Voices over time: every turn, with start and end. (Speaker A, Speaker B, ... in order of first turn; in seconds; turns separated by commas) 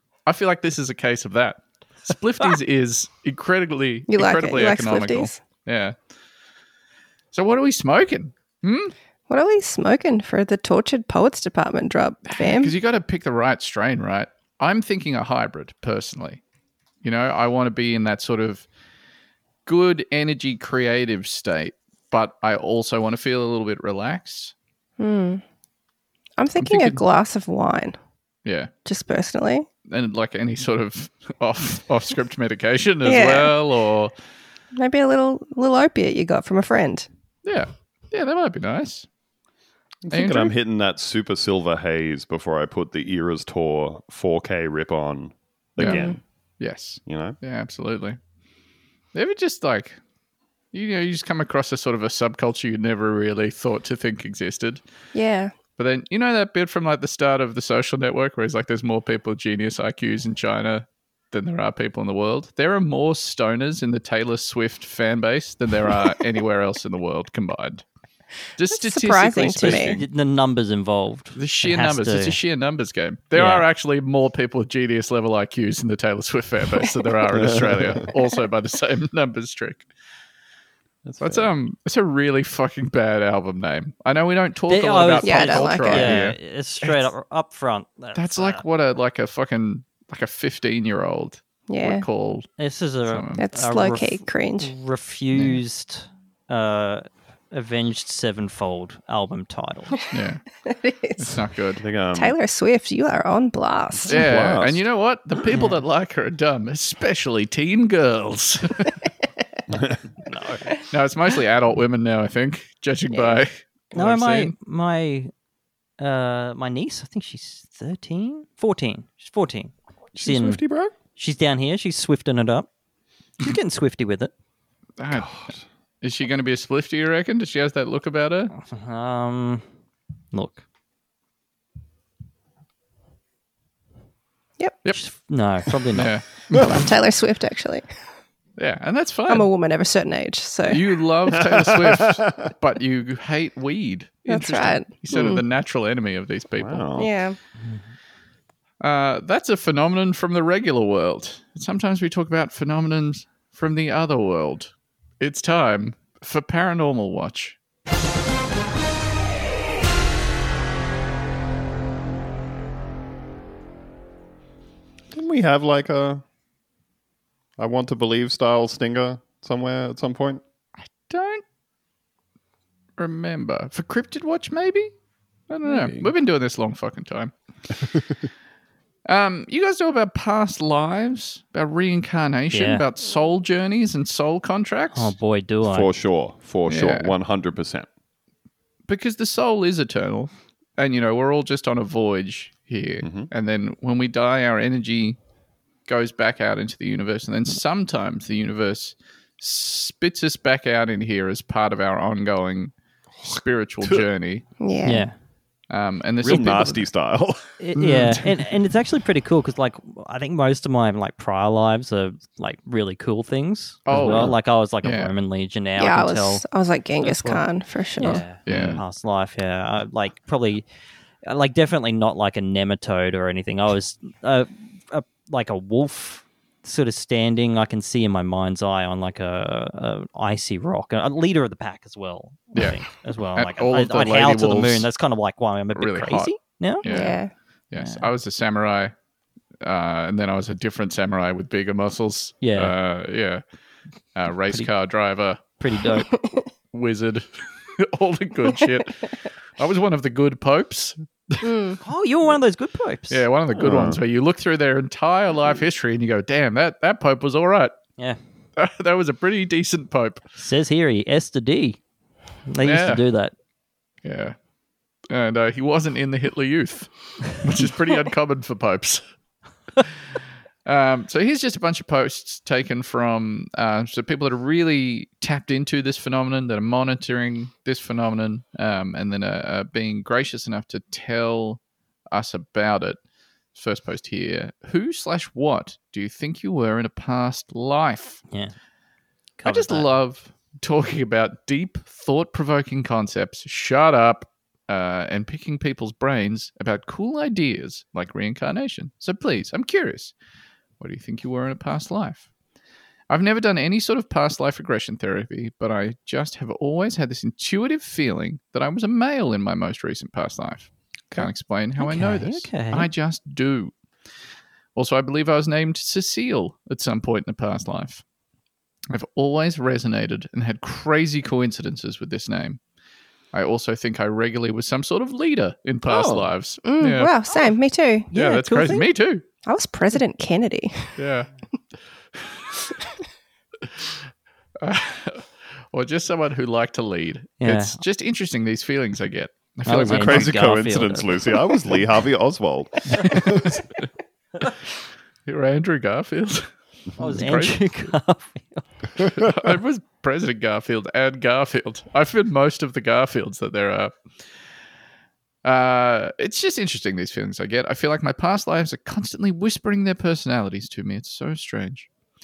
Speaker A: 0.3-6.0, Speaker B: 4.1-5.4, Speaker A: 7.3-8.9, Speaker B: 9.3-12.7, Speaker A: 12.3-16.4, Speaker A: 17.0-18.6, Speaker A: 19.7-24.5, Speaker B: 25.0-25.4, Speaker B: 26.4-28.0, Speaker A: 26.6-27.0, Speaker A: 28.4-28.7, Speaker B: 28.9-29.7, Speaker A: 29.9-34.1, Speaker B: 33.0-33.5, Speaker B: 34.8-37.1, Speaker A: 37.5-39.1, Speaker C: 40.0-46.2, Speaker A: 40.1-40.5, Speaker A: 45.8-46.1, Speaker B: 45.8-46.2, Speaker A: 46.6-48.2, Speaker C: 47.1-47.4, Speaker A: 49.1-50.0, Speaker A: 50.7-54.8, Speaker B: 55.1-55.5, Speaker A: 55.8-67.8, Speaker A: 68.6-70.1, Speaker B: 68.7-70.0, Speaker D: 69.6-72.4, Speaker A: 71.3-79.9, Speaker D: 73.3-73.7, Speaker C: 77.3-78.1, Speaker C: 81.0-81.5, Speaker A: 81.2-87.1, Speaker D: 84.7-88.6, Speaker B: 85.2-86.2, Speaker A: 88.2-92.5, Speaker B: 91.7-92.1, Speaker D: 92.6-100.0, Speaker A: 93.1-93.4, Speaker B: 93.4-94.7, Speaker A: 95.3-95.6, Speaker A: 100.1-100.4, Speaker B: 100.6-101.4, Speaker A: 101.2-101.8, Speaker C: 101.8-102.4, Speaker B: 102.1-104.2, Speaker C: 104.0-104.8, Speaker A: 104.1-109.0, Speaker D: 105.5-105.8, Speaker C: 109.7-110.0, Speaker D: 110.3-110.6, Speaker A: 110.9-114.5, Speaker B: 113.1-113.4, Speaker D: 113.9-115.3, Speaker D: 116.0-120.6, Speaker C: 120.2-120.9, Speaker D: 121.2-122.7, Speaker D: 123.4-124.3, Speaker A: 125.0-128.5, Speaker C: 125.2-125.6, Speaker D: 128.6-129.7, Speaker D: 130.3-130.6, Speaker D: 134.9-136.1, Speaker A: 135.9-136.7, Speaker B: 136.5-137.8, Speaker A: 138.6-139.5, Speaker B: 139.3-140.8, Speaker A: 140.7-146.9, Speaker C: 141.4-142.5, Speaker B: 144.3-145.4, Speaker C: 146.6-147.1, Speaker B: 147.0-147.4, Speaker A: 148.8-157.6, Speaker C: 165.1-166.2, Speaker C: 167.6-170.4, Speaker A: 170.8-171.4, Speaker A: 173.0-174.9, Speaker A: 175.5-177.3, Speaker C: 175.7-176.1, Speaker C: 177.8-178.1, Speaker A: 179.1-185.1, Speaker D: 182.5-182.8, Speaker D: 184.9-185.9, Speaker C: 185.6-187.9, Speaker A: 186.7-187.1, Speaker A: 188.9-195.2, Speaker C: 193.0-193.3, Speaker A: 195.9-204.4, Speaker B: 204.6-205.1, Speaker D: 204.8-205.2, Speaker A: 205.7-206.9, Speaker C: 206.2-207.4, Speaker D: 207.6-216.4, Speaker A: 207.8-208.3, Speaker A: 213.9-215.1, Speaker C: 213.9-214.3, Speaker B: 215.8-218.2, Speaker D: 217.0-217.4, Speaker D: 218.0-220.7, Speaker A: 218.5-218.8, Speaker C: 218.5-218.8, Speaker D: 221.2-236.8, Speaker A: 233.3-234.9, Speaker A: 235.8-238.9, Speaker B: 236.8-237.3, Speaker D: 237.8-238.1, Speaker A: 239.6-243.4, Speaker D: 242.4-242.7, Speaker A: 244.2-245.4, Speaker D: 245.6-246.1, Speaker A: 246.7-249.0, Speaker A: 249.6-251.5, Speaker B: 251.4-251.8, Speaker D: 251.8-253.2, Speaker A: 253.1-257.8, Speaker C: 253.5-254.0, Speaker A: 258.6-260.2, Speaker D: 260.4-261.8, Speaker D: 262.5-263.3, Speaker A: 262.6-263.0, Speaker A: 264.0-264.4, Speaker A: 265.1-269.0, Speaker A: 270.7-281.6, Speaker A: 282.1-283.0, Speaker A: 283.5-288.2, Speaker D: 289.4-289.9, Speaker A: 289.5-300.1, Speaker A: 300.8-302.3, Speaker A: 303.1-313.7, Speaker D: 311.8-312.9, Speaker A: 314.8-318.0, Speaker A: 318.9-322.6, Speaker A: 323.3-327.4, Speaker C: 325.9-326.2, Speaker B: 326.6-328.1, Speaker D: 328.1-328.9, Speaker A: 328.1-329.2, Speaker B: 329.4-331.0, Speaker A: 331.0-331.3, Speaker A: 334.6-340.4, Speaker D: 337.4-337.8, Speaker D: 339.6-341.3, Speaker C: 339.8-343.6, Speaker A: 343.0-343.6, Speaker A: 345.3-347.8, Speaker D: 347.0-348.7, Speaker A: 349.0-353.9, Speaker A: 355.4-361.9